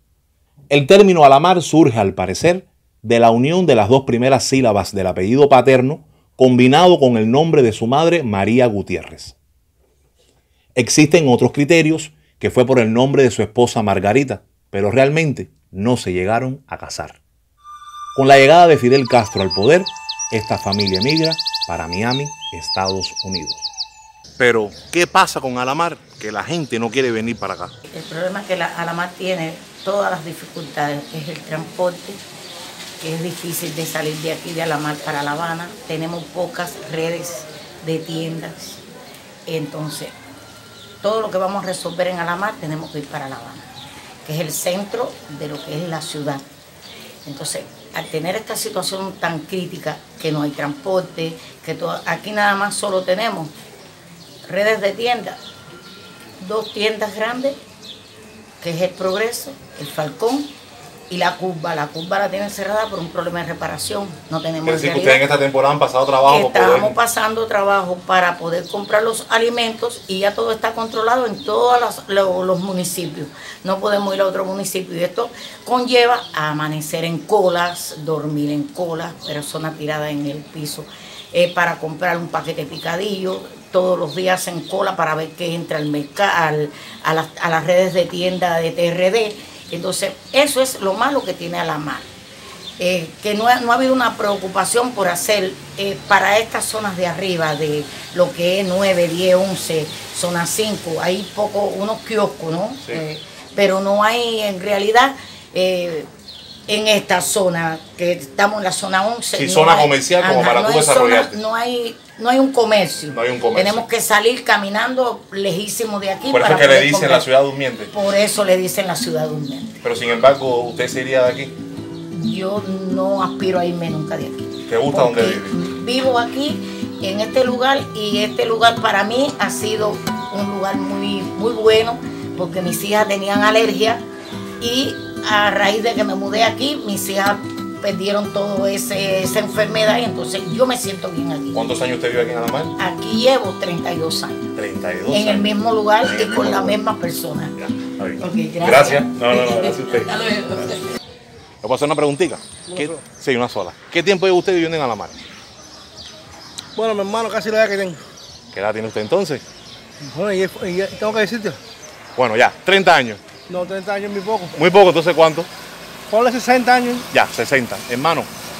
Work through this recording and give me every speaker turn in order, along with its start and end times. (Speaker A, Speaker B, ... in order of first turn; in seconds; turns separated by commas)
Speaker A: 0.7-9.3, Speaker A: 10.8-17.2, Speaker A: 18.1-23.7, Speaker A: 24.4-27.7, Speaker B: 27.9-32.2, Speaker B: 33.0-38.8, Speaker B: 39.5-40.1, Speaker B: 41.0-43.7, Speaker B: 44.2-46.5, Speaker B: 47.2-53.5, Speaker B: 54.5-55.4, Speaker B: 56.4-57.6, Speaker B: 58.6-60.5, Speaker B: 61.1-65.2, Speaker A: 64.6-67.0, Speaker B: 66.2-92.1, Speaker B: 92.8-106.1, Speaker B: 106.7-117.2, Speaker A: 109.3-111.4, Speaker A: 113.1-113.8, Speaker A: 116.3-117.9, Speaker B: 117.9-119.7, Speaker A: 119.8-121.5, Speaker B: 122.1-134.0, Speaker A: 124.7-125.5, Speaker B: 134.6-141.6, Speaker A: 141.5-142.7, Speaker B: 142.8-144.5, Speaker A: 144.5-145.5, Speaker B: 145.1-147.6, Speaker A: 146.0-146.8, Speaker A: 147.6-150.1, Speaker B: 148.2-150.8, Speaker A: 151.6-155.2, Speaker C: 152.7-153.0, Speaker C: 156.7-158.0, Speaker A: 158.5-159.4, Speaker C: 160.0-161.6, Speaker A: 162.2-163.2, Speaker C: 163.5-164.5, Speaker A: 164.5-165.5, Speaker C: 166.1-167.1, Speaker A: 167.1-168.3